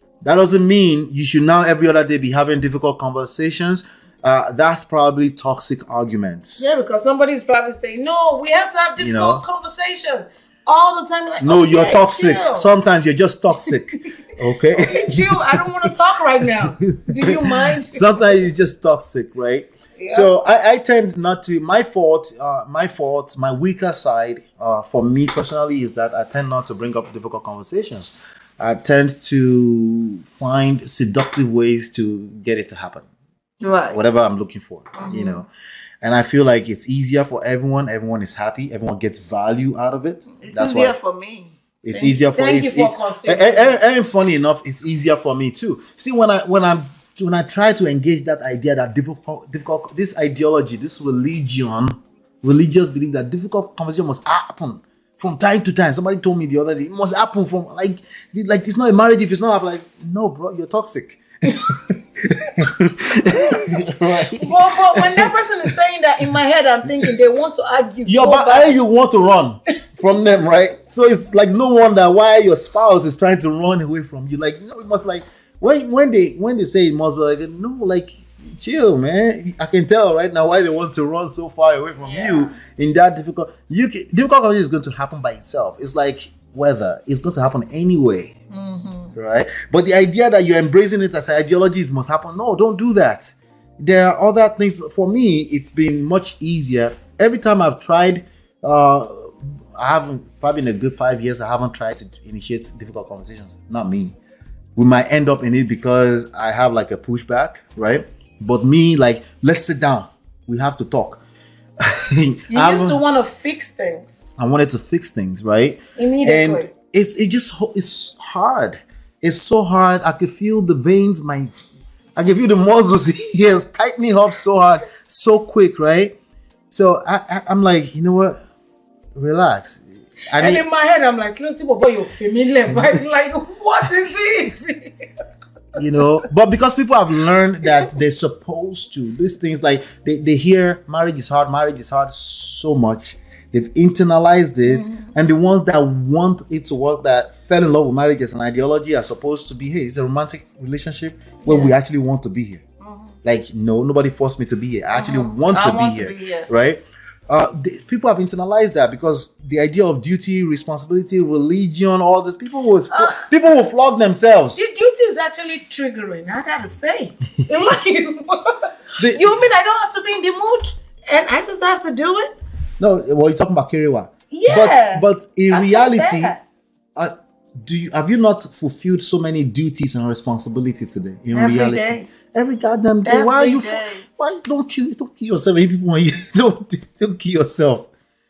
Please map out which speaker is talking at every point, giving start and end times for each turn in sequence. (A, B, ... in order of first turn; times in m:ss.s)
0:00.2-0:06.6 A
0:06.6-0:12.7 B
0:09.0-0:09.4 A
0:11.4-0:15.9 A
0:14.8-0:18.4 B
0:16.5-0:33.1 A
0:20.0-0:20.3 B
0:33.6-0:34.0 B
0:33.9-0:35.5 A
0:35.0-0:35.4 B
0:36.0-0:41.0 A
0:40.4-0:43.8 B
0:41.8-1:05.7 A
1:04.4-1:08.8 B
1:08.0-1:28.3 A
1:22.0-1:22.6 B
1:28.5-1:29.1 B
1:29.2-1:44.2 A
1:44.8-1:51.2 A
1:51.8-1:53.0 A
1:52.5-1:54.3 B
1:54.4-2:01.5 A
1:56.0-1:56.7 B
2:02.2-2:06.2 A
2:06.7-2:08.4 A
2:09.2-2:10.6 A
2:10.4-2:15.0 B
2:12.7-2:13.1 A
2:15.8-2:32.6 A
2:24.7-2:25.1 B
2:31.4-2:31.8 B
2:32.8-2:33.2 B
2:33.2-2:44.6 A
2:34.9-2:36.5 B
2:42.9-2:43.2 B
2:44.5-2:52.4 B
2:49.0-2:49.4 A
2:52.8-2:56.4 A
2:54.3-2:56.4 B
2:57.0-3:07.9 A
3:01.3-3:02.1 B
3:03.0-3:04.0 B